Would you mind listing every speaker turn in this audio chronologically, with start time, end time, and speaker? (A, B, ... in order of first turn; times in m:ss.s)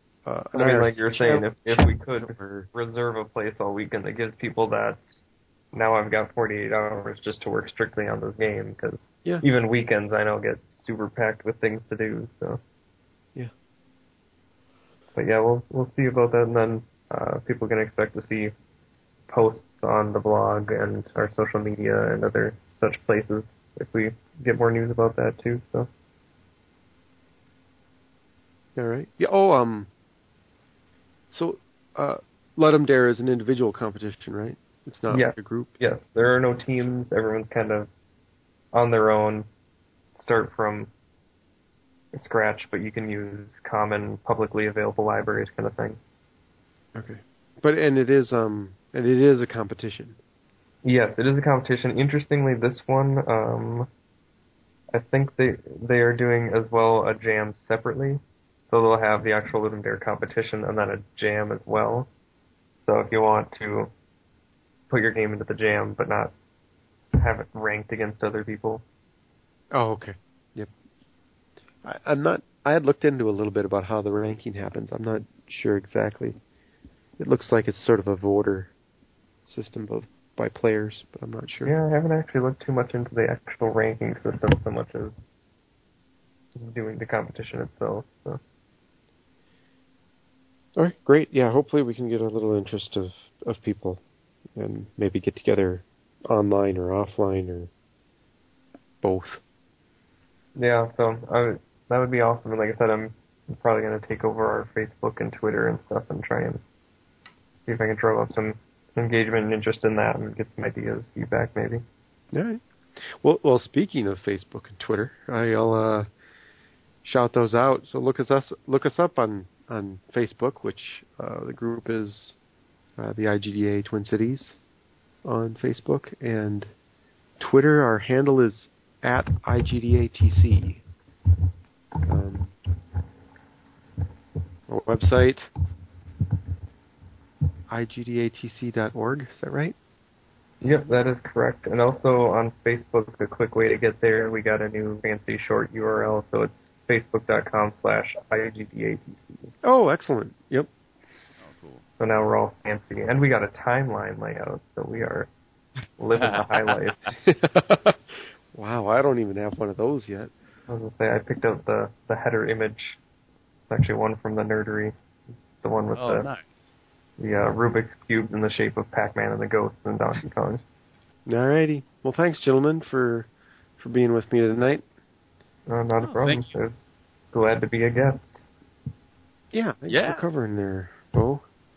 0:00.2-0:02.7 A
0:00.5-0:05.2 B
0:05.7-0:12.6 B
0:15.2-0:18.5 B
0:19.3-0:25.9 B
0:28.8-0:29.9 A
0:31.3-0:35.7 A
0:35.1-0:37.9 B
0:38.7-0:39.5 B
0:40.2-0:40.9 B
0:42.1-0:46.0 B
0:47.0-0:50.2 A
0:50.8-0:53.9 B
0:54.9-1:02.1 B
1:02.9-1:03.9 B
1:04.9-1:06.3 B
1:07.2-1:08.8 B
1:09.7-1:10.7 A
1:11.8-1:16.4 A
1:17.2-1:18.7 A
1:19.5-1:21.8 A
1:21.6-1:25.2 B
1:26.6-1:28.4 B
1:30.8-1:34.0 A
1:34.6-1:37.7 A
1:39.0-1:39.4 A
1:40.6-1:46.6 B
1:47.7-1:51.8 B
1:52.3-1:56.1 A
1:57.0-2:02.4 A
2:03.0-2:04.6 A
2:05.2-2:06.7 A
2:07.4-2:10.8 A
2:12.1-2:12.6 A
2:14.7-2:15.5 A
2:17.7-2:19.8 A
2:20.6-2:20.9 C
2:20.6-2:29.5 B
2:29.6-2:30.7 A
2:31.4-2:31.8 C
2:32.0-2:35.3 B
2:36.0-2:37.1 B
2:36.2-2:36.9 C
2:37.2-2:38.0 A
2:38.5-2:40.3 A
2:40.7-2:43.0 B
2:43.7-2:44.9 B
2:45.6-2:46.3 B
2:46.0-2:46.7 C
2:47.2-2:50.6 B
2:51.3-2:54.8 A
2:55.7-2:56.8 B
2:56.0-2:56.4 C
2:57.3-2:58.4 B
2:59.5-3:01.4 A
2:59.9-3:00.2 C